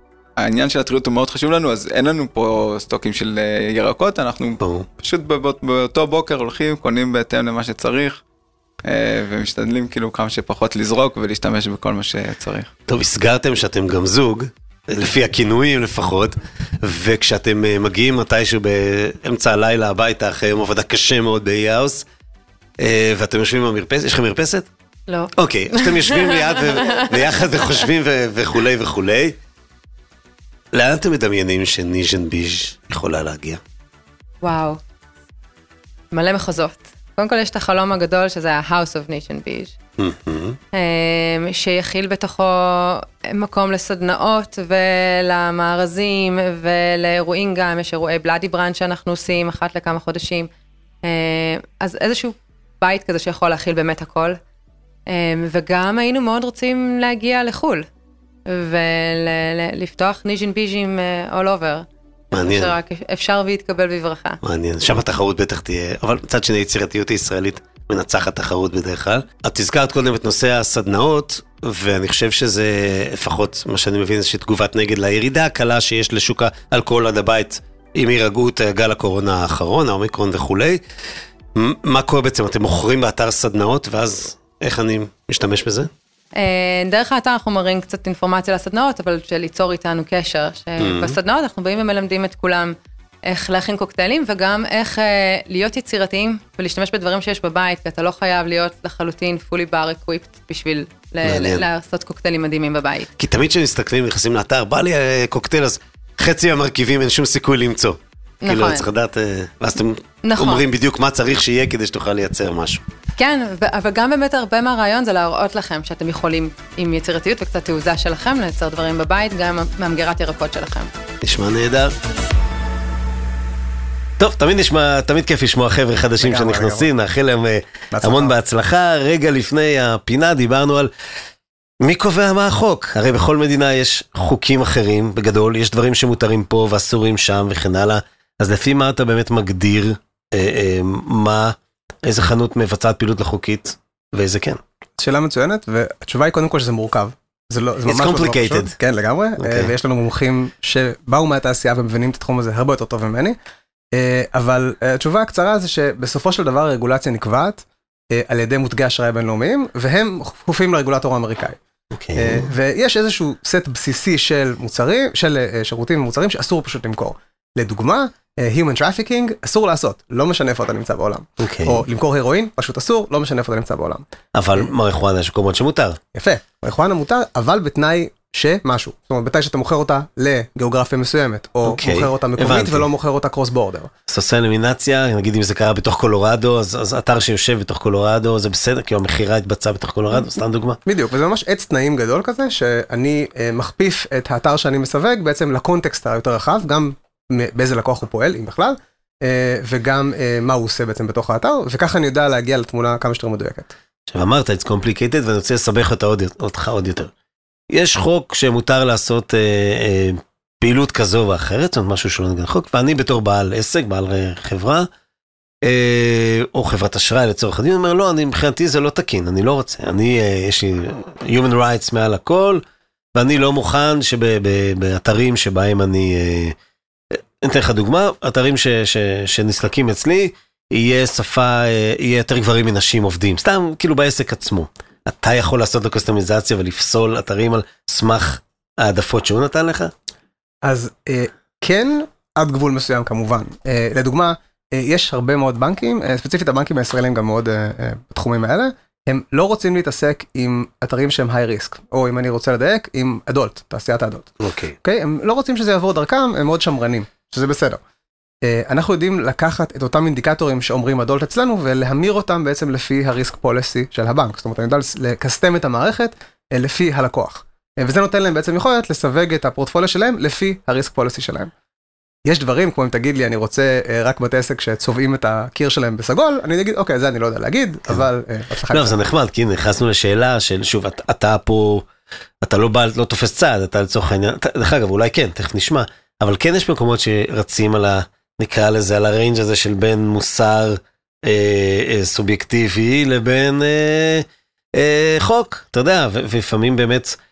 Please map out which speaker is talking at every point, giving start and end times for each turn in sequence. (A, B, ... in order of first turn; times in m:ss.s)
0:00.4-0:08.2 A
0:04.6-0:04.9 B
0:08.8-0:12.7 A
0:12.9-0:22.0 B
0:22.8-0:24.7 B
0:25.1-0:27.8 C
0:25.3-0:29.4 B
0:30.7-0:33.6 B
0:34.4-0:34.8 C
0:36.1-0:39.8 C
0:40.0-0:40.6 B
0:40.7-0:50.5 C
0:51.0-0:54.4 C
0:55.1-0:57.9 C
0:58.4-1:04.4 C
1:02.3-1:02.8 B
1:04.4-1:20.8 B
1:21.5-1:25.9 B
1:26.4-1:43.1 C
1:30.8-1:31.2 B
1:41.2-1:41.6 B
1:43.2-1:52.8 B
1:48.4-1:48.9 C
1:50.2-1:50.6 C
1:53.2-2:00.9 C
2:01.2-2:01.9 B
2:04.2-2:10.9 B
2:06.2-2:06.9 D
2:07.9-2:08.3 D
2:11.8-2:24.6 B
2:25.0-2:33.4 D
2:27.8-2:28.8 B
2:29.4-2:29.7 B
2:33.9-2:41.6 D
2:41.9-2:42.5 B
2:42.1-2:54.0 D
2:51.4-2:51.8 B
2:54.3-2:56.0 B
2:56.1-3:03.9 D
3:01.6-3:02.8 B
3:04.1-3:10.8 B
3:10.8-3:23.7 D
3:24.1-3:27.1 B
3:27.7-3:34.9 B
3:35.6-3:42.6 B
3:43.1-3:46.6 B
3:47.1-3:59.9 B
4:00.6-4:17.8 D
4:14.4-4:14.8 B
4:18.4-4:31.5 D
4:32.2-4:39.0 D
4:38.7-4:41.8 B
4:42.4-4:57.2 B